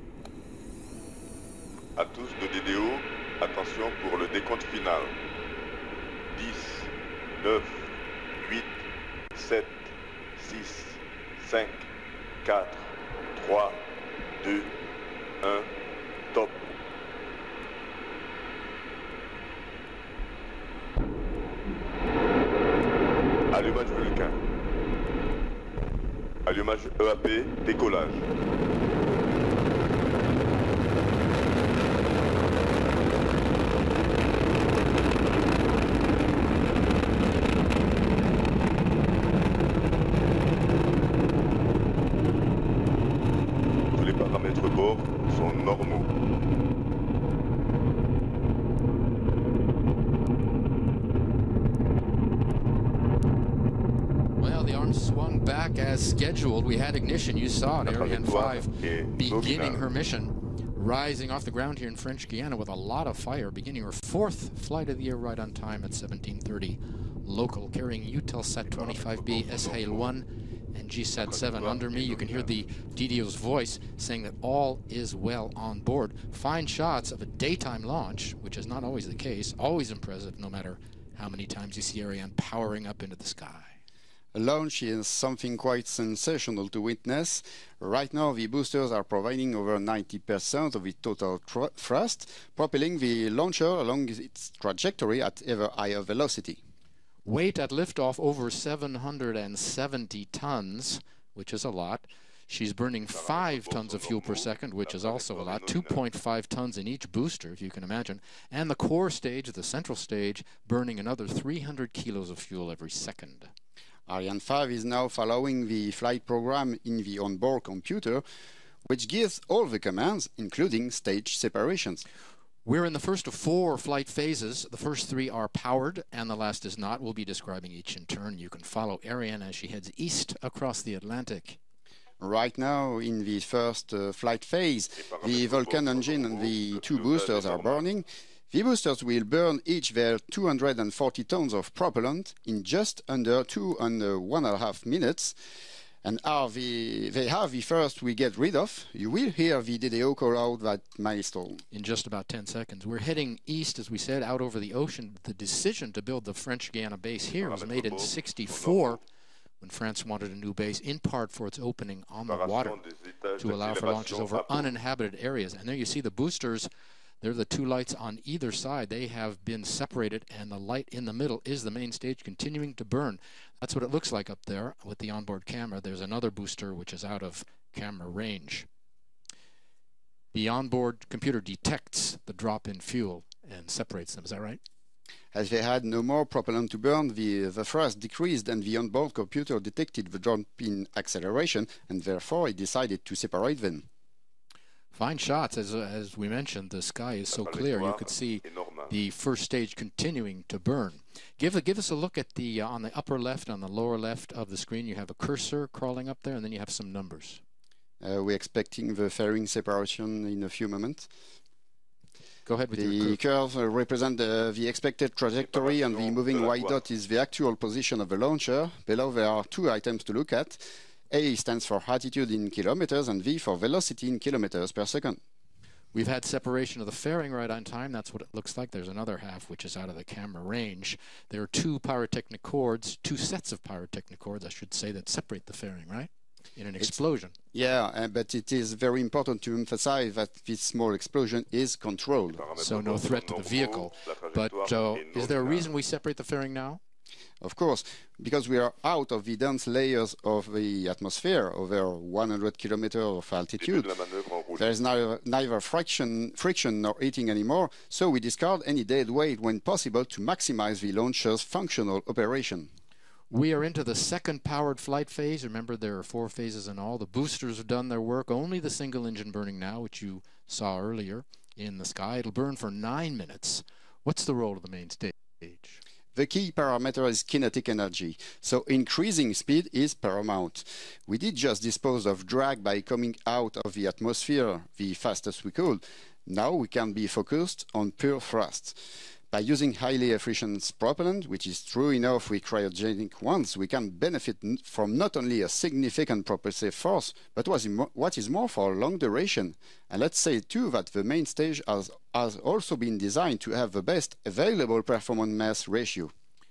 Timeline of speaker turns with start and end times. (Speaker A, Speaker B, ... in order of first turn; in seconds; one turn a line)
Speaker A: 2.0-5.2
Speaker A: 6.3-8.8
Speaker A: 9.3-11.9
Speaker A: 12.4-13.9
Speaker A: 14.4-14.7
Speaker A: 15.4-15.7
Speaker A: 16.3-16.7
Speaker A: 23.5-24.4
Speaker A: 26.4-28.3
Speaker A: 43.9-46.1
Speaker B: 54.4-83.8
Speaker A: 57.8-59.9
Speaker A: 68.6-70.1
Speaker A: 71.2-72.7
Speaker C: 84.3-96.6
Speaker B: 97.2-113.5
Speaker A: 103.1-106.0
Speaker C: 114.1-118.2
Speaker C: 118.9-122.0
Speaker B: 122.6-131.6
Speaker C: 132.2-145.3
Speaker A: 135.0-137.8
Speaker C: 146.0-151.6
Speaker B: 151.7-159.0
Speaker A: 157.2-159.0
Speaker B: 159.6-162.8
Speaker A: 162.2-164.7
Speaker B: 163.4-166.7
Speaker B: 167.2-178.7
Speaker B: 180.3-184.6
Speaker C: 185.3-193.8
Speaker B: 194.9-207.4
Speaker A: 197.3-199.0
Speaker C: 208.0-211.1
Speaker B: 212.4-213.2
Speaker C: 212.8-225.2
Speaker A: 215.4-216.8
Speaker B: 225.9-237.3
Speaker C: 237.5-242.4
Speaker A: 242.3-245.8
Speaker B: 242.6-246.8
Speaker C: 247.4-253.9
Speaker A: 253.6-254.7
Speaker C: 254.6-262.7
Speaker B: 263.3-275.8
Speaker C: 276.1-288.8
Speaker C: 289.3-306.1